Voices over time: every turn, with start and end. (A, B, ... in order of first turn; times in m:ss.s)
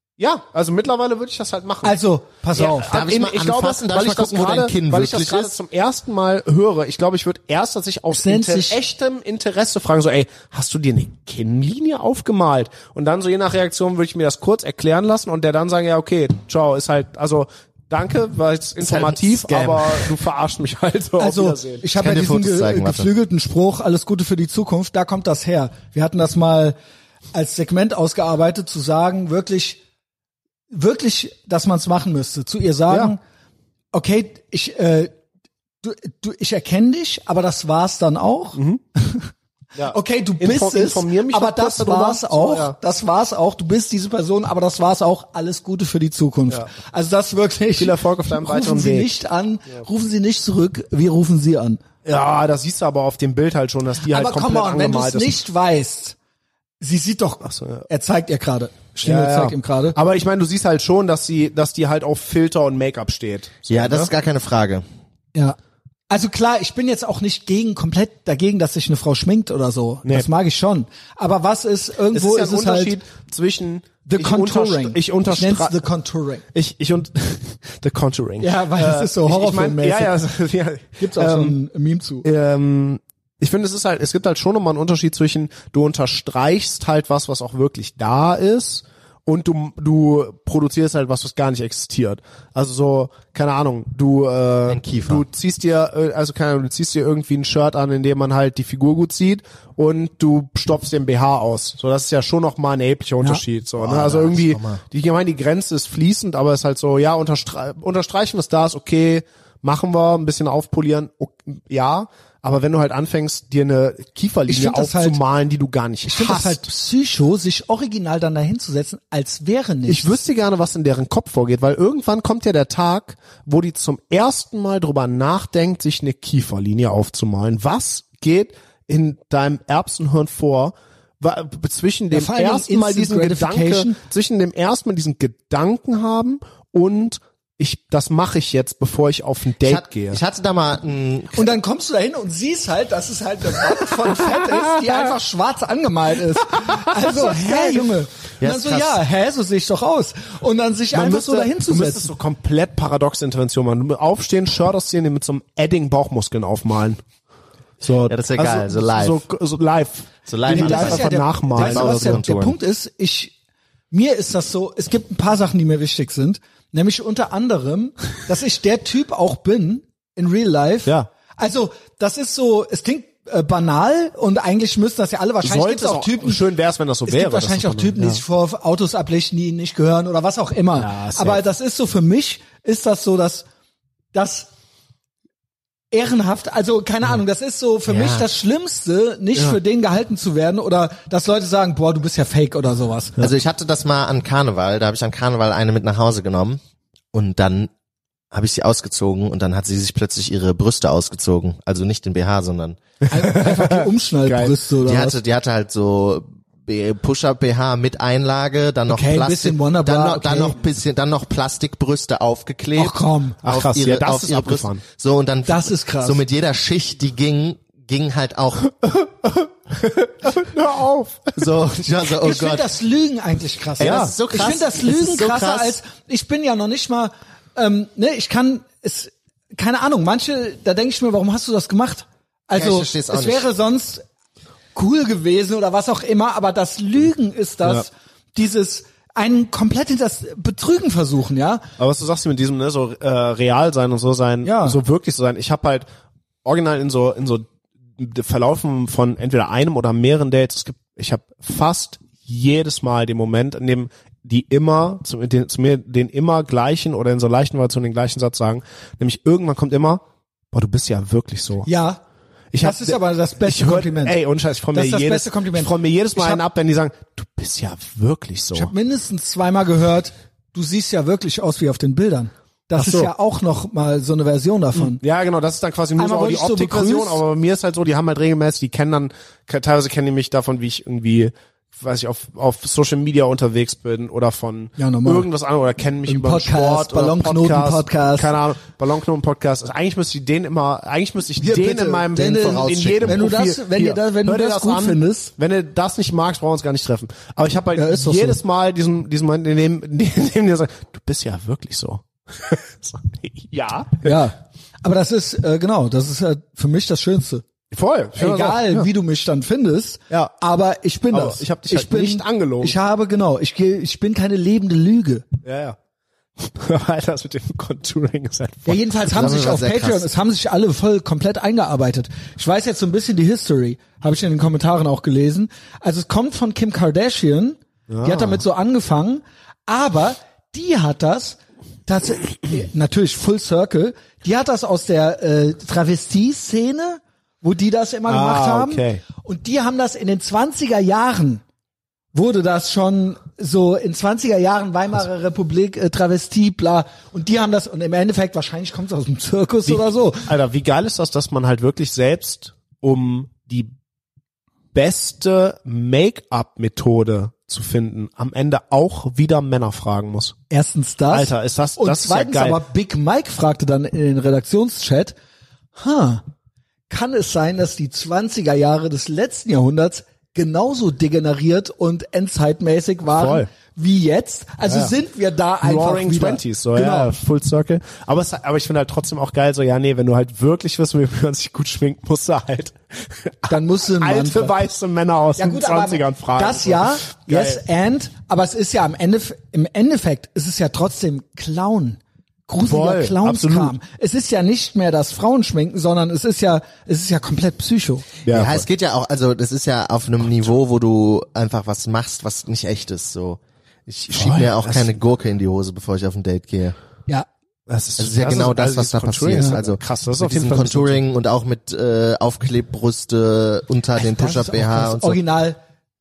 0:00.2-0:02.0 A
0:01.8-0:02.9 B
0:02.6-0:21.8 A
0:02.6-0:05.6 C
0:08.1-0:08.8 B
0:18.8-0:20.1 C
0:21.2-0:26.8 B
0:22.0-0:23.1 C
0:27.3-0:29.8 B
0:30.7-0:33.2 B
0:33.9-0:35.1 B
0:35.8-0:39.3 B
0:38.6-0:38.8 A
0:39.8-0:42.8 A
0:39.9-0:51.8 B
0:47.8-0:49.1 A
0:52.0-0:55.4 A
0:54.1-0:56.2 B
0:56.8-1:00.0 B
0:57.4-0:57.9 A
0:59.0-1:04.1 A
1:03.7-1:04.8 C
1:06.1-1:13.0 B
1:12.1-1:15.8 A
1:14.1-1:16.4 B
1:16.5-1:21.6 A
1:18.4-1:20.2 B
1:21.0-1:22.3 B
1:22.2-1:56.6 A
1:34.7-1:35.2 C
1:43.8-1:44.8 C
1:54.5-1:55.2 B
1:56.1-2:00.2 B
1:59.9-2:20.2 A
2:12.1-2:14.0 B
2:19.6-2:21.5 C
2:21.4-2:32.1 B
2:26.6-2:27.9 A
2:28.4-2:29.0 C
2:30.9-2:37.0 A
2:37.8-2:42.3 A
2:38.1-2:39.2 C
2:40.3-2:42.6 C
2:40.5-2:43.3 B
2:43.9-2:56.4 B
2:55.4-2:58.2 A
2:57.1-3:03.4 B
3:00.8-3:01.4 A
3:04.1-3:04.5 B
3:05.9-3:13.2 B
3:07.9-3:08.3 C
3:13.2-3:16.6 C
3:17.1-3:17.7 C
3:18.3-3:22.8 C
3:23.1-3:25.2 B
3:23.2-3:24.5 A
3:24.8-3:38.7 C
3:28.9-3:30.6 B
3:32.8-3:33.4 B
3:33.4-3:34.8 A
3:35.5-3:36.2 B
3:38.9-3:41.5 A
3:41.4-3:42.7 C
3:42.2-3:54.0 B
3:43.8-3:45.8 C
3:43.8-3:44.1 A
3:52.6-3:53.5 C
3:54.8-4:01.6 B
4:01.8-4:05.9 A
4:04.4-4:04.8 B
4:06.4-4:07.5 A
4:08.0-4:21.7 A
4:21.7-4:22.0 B
4:22.5-4:28.7 A
4:22.6-4:24.2 B
4:24.7-4:26.4 B
4:28.5-4:35.0 B
4:32.8-4:33.1 A
4:34.8-5:04.2 A
4:36.0-4:37.2 B
4:44.8-4:45.3 B
4:46.1-4:48.3 B
4:51.4-4:55.3 B
4:52.2-4:53.3 C
4:57.8-4:58.4 B
5:04.0-5:07.4 B
5:07.7-5:08.9 A
5:08.2-5:15.3 B
5:11.1-5:12.8 A
5:15.4-5:15.8 A
5:16.4-5:18.8 A
5:18.7-5:41.4 B
5:19.1-5:20.1 C
5:27.9-5:28.4 A
5:38.1-5:39.0 A
5:42.1-5:50.3 B
5:49.7-5:53.7 A
5:54.7-6:00.4 A
6:00.5-6:05.2 B
6:01.1-6:02.6 A
6:05.8-6:06.2 B
6:06.9-6:17.1 B
6:13.1-6:13.5 A
6:14.7-6:14.9 A
6:15.6-6:27.6 A
6:23.5-6:24.6 B
6:25.4-6:38.1 B
6:32.6-6:33.8 A
6:38.2-6:38.6 A
6:38.3-6:46.8 C
6:44.1-6:44.9 A
6:47.7-6:51.0 A
6:48.0-6:55.2 C
6:54.0-6:55.6 B